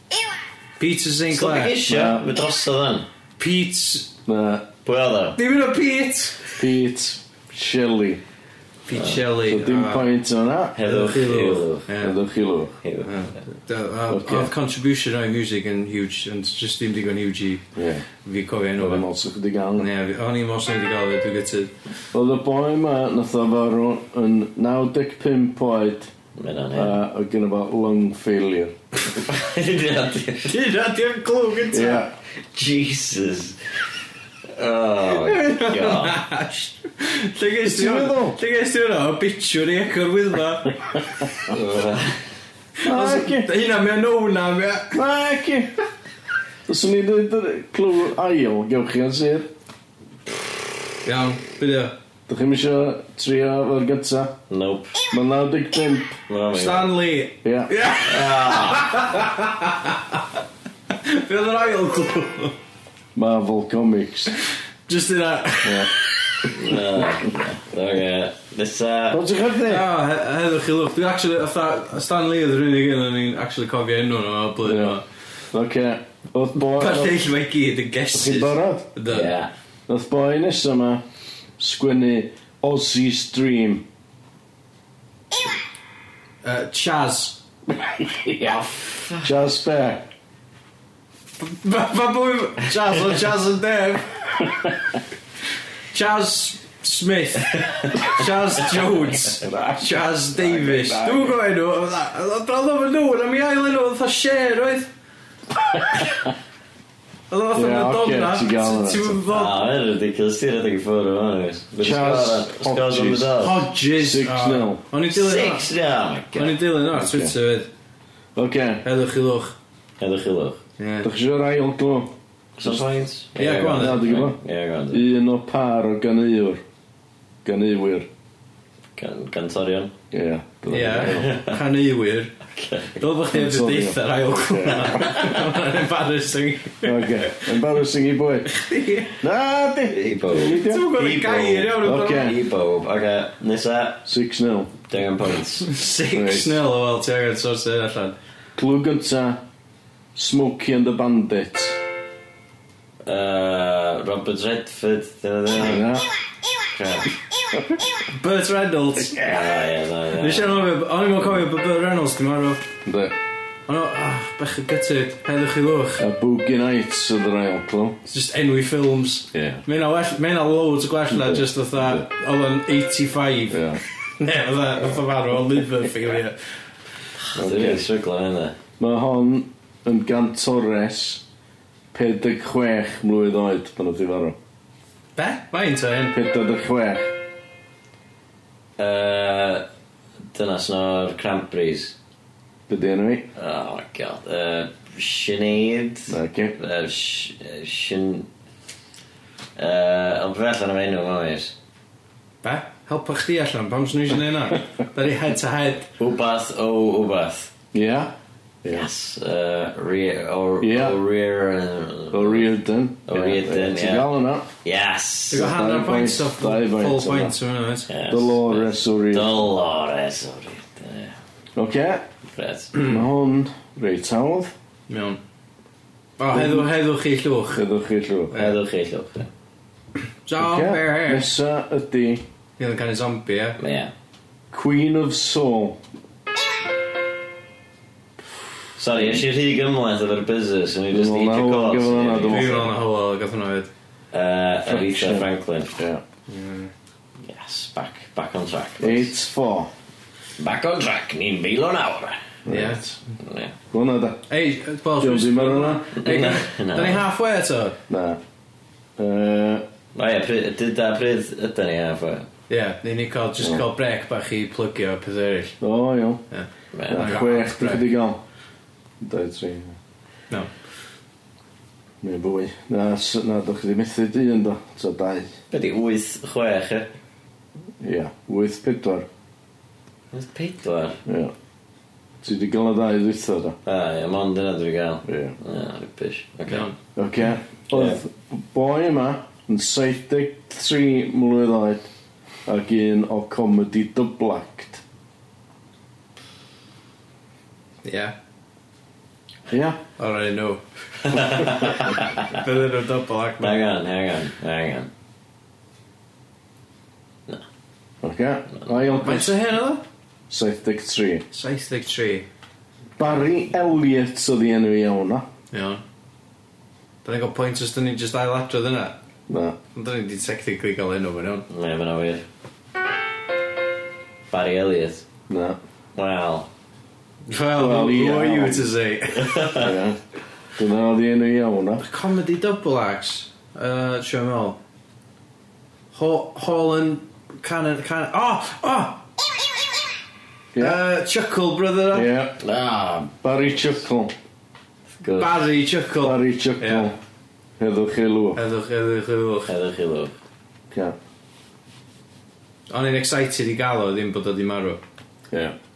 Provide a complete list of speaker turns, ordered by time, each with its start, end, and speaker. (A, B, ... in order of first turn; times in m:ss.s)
0:00.8-0:01.8 A
0:01.3-0:03.1 B
0:01.9-0:02.2 C
0:03.4-0:04.1 A
0:04.2-0:04.7 C
0:04.8-0:05.4 B
0:05.3-0:06.6 A
0:06.6-0:08.2 C
0:08.8-0:10.1 A
0:08.9-0:09.2 B
0:09.4-0:10.8 C
0:10.7-0:11.9 B
0:10.8-0:12.2 A
0:12.0-0:12.8 C
0:12.8-0:13.1 B
0:13.0-0:17.6 A
0:14.1-0:14.5 C
0:17.7-0:18.0 C
0:18.2-0:19.0 A
0:18.8-0:19.9 C
0:19.8-0:21.7 A
0:22.1-0:26.1 C
0:26.4-0:27.0 B
0:26.7-0:28.7 C
0:29.1-0:30.5 B
0:30.4-0:32.0 A
0:31.7-0:32.1 C
0:32.5-0:33.6 B
0:34.5-0:36.2 B
0:35.0-0:41.3 A
0:37.6-0:38.4 C
0:41.4-0:42.2 B
0:42.8-0:45.0 A
0:42.8-0:43.5 C
0:44.9-0:45.7 C
0:46.7-0:49.5 C
0:51.0-0:51.9 A
0:52.3-0:54.4 C
0:54.5-0:54.9 B
0:55.1-0:56.2 C
0:56.3-0:57.0 B
0:56.5-1:00.2 A
0:57.4-0:57.7 C
0:58.0-0:59.2 B
1:00.9-1:02.6 A
1:03.1-1:04.3 C
1:04.9-1:06.7 A
1:05.6-1:05.9 C
1:06.5-1:09.2 B
1:09.1-1:09.9 C
1:09.6-1:15.0 A
1:14.6-1:15.0 C
1:15.5-1:17.1 C
1:16.7-1:19.4 A
1:18.1-1:18.9 C
1:19.1-1:19.5 B
1:19.9-1:21.0 C
1:21.6-1:23.8 C
1:26.4-1:27.4 A
1:27.7-1:28.6 C
1:28.8-1:29.2 B
1:29.2-1:30.1 C
1:31.4-1:34.5 A
1:35.9-1:44.9 A
1:39.4-1:41.4 C
1:47.3-1:49.6 A
1:47.5-1:49.2 C
1:49.3-1:53.6 B
1:51.8-1:54.8 C
1:53.4-1:55.7 A
1:55.1-1:56.6 B
1:56.3-1:57.7 A
1:56.9-1:57.3 C
1:58.3-1:58.8 C
1:58.8-1:59.5 A
2:00.0-2:00.6 B
2:00.8-2:01.1 A
2:01.0-2:02.8 C
2:02.6-2:05.0 B
2:03.4-2:04.2 A
2:03.4-2:04.4 C
2:04.9-2:06.6 C
2:07.4-2:08.1 C
2:09.0-2:09.9 B
2:10.1-2:11.3 C
2:10.7-2:12.3 A
2:11.0-2:11.6 B
2:12.5-2:13.0 B
2:13.0-2:17.5 A
2:13.3-2:15.1 C
2:16.8-2:18.5 C
2:18.5-2:19.2 A
2:19.2-2:20.9 C
2:19.9-2:24.0 B
2:20.4-2:22.3 A
2:21.8-2:22.4 C
2:24.0-2:24.8 C
2:24.9-2:25.7 B
2:25.6-2:28.2 A
2:26.1-2:26.6 C
2:28.5-2:29.4 C
2:30.1-2:31.8 C
2:33.0-2:35.9 B
2:35.5-2:36.1 C
2:36.7-2:37.2 B
2:38.1-2:39.4 A
2:39.2-2:40.6 B
2:40.2-2:42.6 A
2:42.8-2:43.1 C
2:43.7-2:46.1 A
2:46.0-2:48.0 C
2:48.1-2:56.4 A
2:49.3-2:49.6 C
2:51.1-2:52.0 C
2:53.5-2:53.8 C
2:57.3-2:58.6 B
2:57.4-2:57.8 C
2:58.8-3:01.2 C
3:01.9-3:04.4 C
3:05.2-3:06.2 A
3:06.1-3:07.1 C
3:08.8-3:09.6 B
3:10.3-3:11.9 B
3:12.7-3:13.3 C
3:13.4-3:18.3 B
3:16.1-3:16.5 C
3:19.6-3:21.5 B
3:22.4-3:25.9 A
3:26.0-3:27.5 B
3:27.7-3:28.9 C
3:28.7-3:32.5 B
3:30.6-3:31.0 C
3:32.1-3:34.5 C
3:33.1-3:34.1 B
3:34.6-3:35.5 B
3:35.3-3:37.9 A
3:35.3-3:37.4 C
3:37.9-3:41.2 B
3:38.1-3:39.5 C
3:41.6-3:42.0 C
3:42.3-3:42.8 B
3:42.7-3:44.5 C
3:44.9-3:45.2 A
3:46.2-3:47.6 A
3:46.3-3:46.7 C
3:47.5-3:48.4 C
3:48.3-3:49.3 B
3:50.2-3:51.3 A
3:50.4-3:52.2 C
3:52.6-3:53.6 A
3:53.6-3:53.9 B
3:54.5-3:55.8 C
3:58.8-4:02.7 B
3:59.0-3:59.2 C
4:00.9-4:02.7 C
4:02.2-4:03.7 A
4:04.1-4:05.8 B
4:04.6-4:06.0 C
4:06.3-4:06.7 A
4:07.2-4:09.1 B
4:08.8-4:09.7 C
4:10.4-4:12.2 B
4:12.4-4:13.0 C
4:12.5-4:12.8 A
4:13.2-4:13.5 B
4:13.7-4:14.2 C
4:14.3-4:17.8 A
4:15.0-4:15.8 C
4:16.0-4:17.0 B
4:17.9-4:18.2 C
4:19.0-4:19.6 C
4:19.9-4:22.3 B
4:22.5-4:25.6 A
4:23.4-4:23.6 C
4:25.6-4:26.2 C
4:26.3-4:27.8 A
4:26.7-4:27.2 B
4:26.9-4:28.2 C
4:29.0-4:29.8 C
4:32.0-4:35.3 C
4:35.5-4:36.9 B
4:37.8-4:39.1 C
4:40.1-4:41.0 B
4:41.0-4:41.3 C
4:42.2-4:43.6 C
4:43.6-4:46.7 B
4:45.0-4:45.4 C
4:46.5-4:46.8 A
4:47.0-4:51.9 C
4:47.7-4:48.0 B
4:52.4-4:54.8 C
4:57.8-4:58.1 A
4:59.5-4:59.8 C
5:00.0-5:01.7 A
5:01.0-5:02.4 B
5:02.3-5:03.6 A
5:03.4-5:04.9 B
5:08.0-5:09.4 C
5:09.0-5:09.8 A
5:10.3-5:11.2 C
5:11.3-5:12.3 A
5:13.0-5:15.2 C
5:15.5-5:15.8 A
5:17.0-5:19.0 A
5:19.3-5:19.6 C
5:19.7-5:21.4 A
5:21.5-5:22.2 B
5:24.3-5:25.0 B
5:25.3-5:25.6 C
5:26.0-5:26.5 B
5:27.3-5:29.7 A
5:27.5-5:28.7 C
5:29.2-5:29.7 B
5:29.6-5:30.0 C
5:30.6-5:31.8 C
5:31.8-5:34.6 A
5:35.9-5:39.0 A
5:40.5-5:40.8 C
5:40.6-5:42.1 A
5:41.9-5:42.4 C
5:42.4-5:43.2 B
5:43.2-5:44.1 C
5:45.0-5:45.5 B
5:45.2-5:46.9 A
5:46.0-5:47.0 C
5:47.6-5:48.4 C
5:48.3-5:49.5 A
5:49.5-5:50.1 B
5:50.7-5:51.0 C
5:52.7-5:54.8 A